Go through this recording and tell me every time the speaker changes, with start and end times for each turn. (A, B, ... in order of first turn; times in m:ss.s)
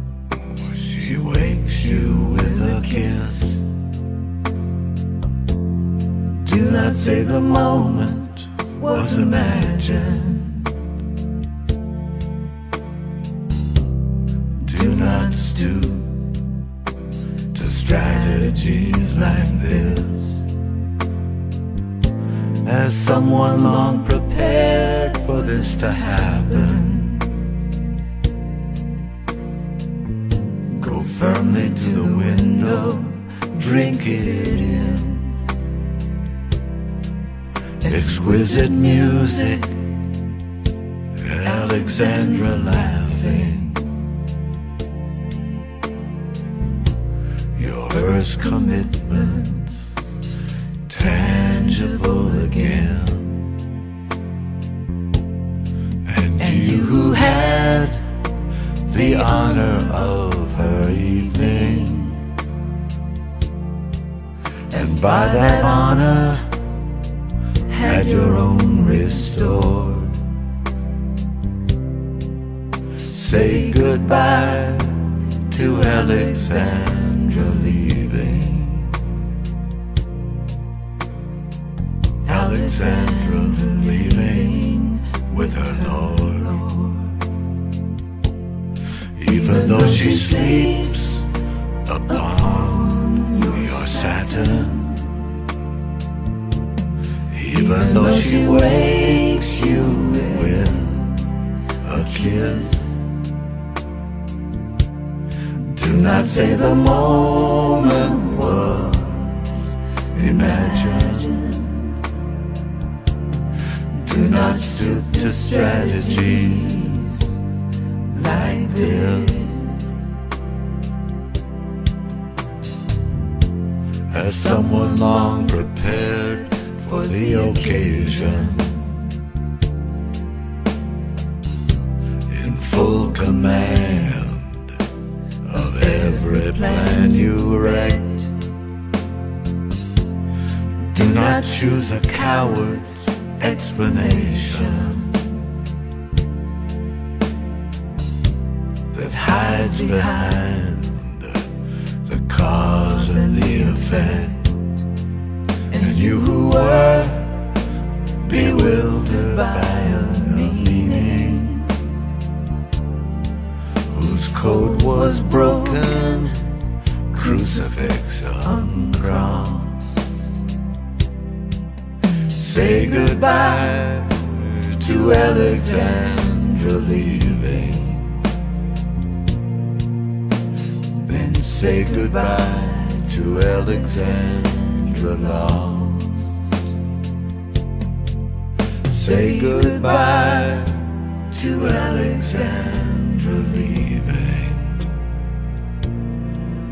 0:00.7-0:03.6 A
0:06.4-0:10.6 A
0:14.6-0:16.2 A
0:17.5-0:20.4 A
0:22.6-0:27.3 A
0:30.8-0:35.3 A
0:37.8-0:39.7 A
0:41.2-0:43.8 A
0:47.6-0:49.8 A
0:50.9-0:53.4 A
0:56.0-0:58.0 A
0:58.8-1:02.2 A
1:04.7-1:06.5 A
1:07.7-1:10.2 A
1:13.0-1:19.0 A
1:22.2-1:27.1 A
1:29.2-1:31.3 A
1:31.8-1:35.0 A
1:37.3-1:41.2 A
1:41.8-1:43.0 A
1:45.7-1:49.5 A
1:50.1-1:51.8 A
1:54.0-1:57.2 A
1:58.1-1:59.8 A
2:04.1-2:08.8 A
2:12.3-2:14.6 A
2:15.4-2:18.3 A
2:20.9-2:25.2 A
2:28.9-2:31.4 A
2:32.0-2:34.5 A
2:35.7-2:37.5 A
2:38.2-2:41.7 A
2:43.9-2:46.4 A
2:47.1-2:49.8 A
2:52.3-2:58.2 A
3:01.0-3:06.3 A
3:08.8-3:14.8 A